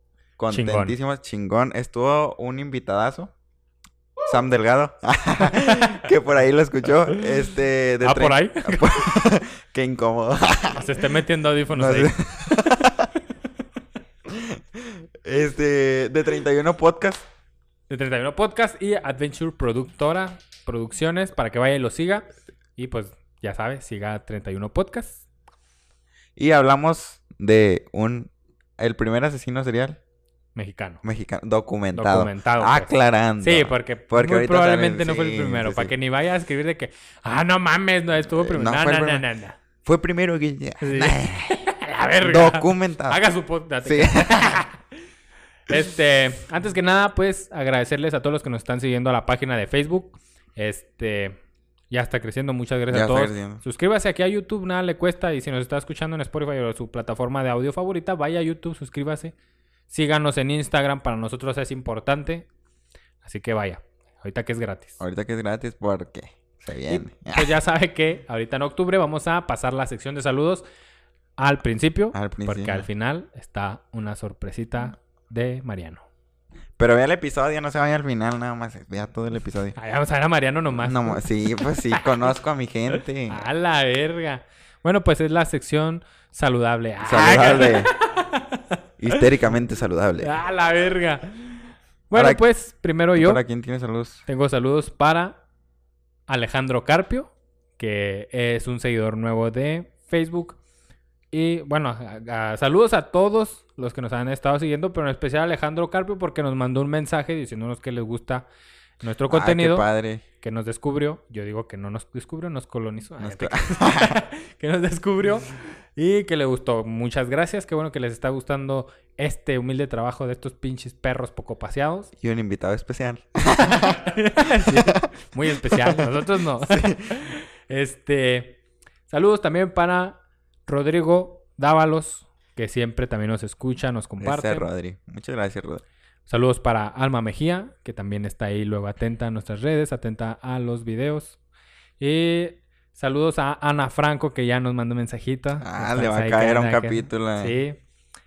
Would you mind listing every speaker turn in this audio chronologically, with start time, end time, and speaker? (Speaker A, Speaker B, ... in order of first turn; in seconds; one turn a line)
Speaker A: 0.4-3.3
Speaker B: 0.5-1.0
Speaker A: 4.2-10.9
Speaker B: 8.0-9.1
Speaker B: 10.7-12.1
Speaker A: 11.7-13.1
Speaker A: 14.3-17.3
Speaker B: 17.9-25.2
Speaker A: 26.4-30.0
Speaker B: 30.6-31.0
Speaker A: 31.0-35.9
Speaker B: 31.9-39.6
Speaker A: 38.2-39.2
Speaker A: 39.9-41.5
Speaker B: 40.8-44.8
Speaker A: 42.2-43.2
Speaker A: 43.8-44.6
Speaker B: 45.7-51.4
Speaker B: 51.9-59.3
Speaker A: 52.9-53.6
Speaker B: 59.9-62.5
Speaker B: 63.2-65.0
Speaker A: 65.0-67.5
Speaker B: 66.9-70.7
Speaker B: 71.4-76.0
Speaker A: 72.1-72.9
Speaker A: 76.8-79.8
Speaker B: 79.8-81.2
Speaker A: 80.8-83.5
Speaker B: 83.3-88.7
Speaker A: 87.0-87.9
Speaker A: 89.0-90.3
Speaker B: 90.2-91.3
Speaker B: 92.1-93.4
Speaker A: 92.1-92.4
Speaker A: 93.2-94.2
Speaker B: 94.3-95.4
Speaker B: 96.3-100.6
Speaker B: 101.3-108.5
Speaker B: 109.0-109.9
Speaker A: 109.3-110.2
Speaker B: 110.4-122.1
Speaker A: 113.2-114.2
Speaker A: 122.2-127.0
Speaker B: 123.7-128.6
Speaker B: 129.1-134.7
Speaker A: 134.2-135.8
Speaker B: 136.3-141.4
Speaker B: 142.0-147.8
Speaker A: 145.6-147.6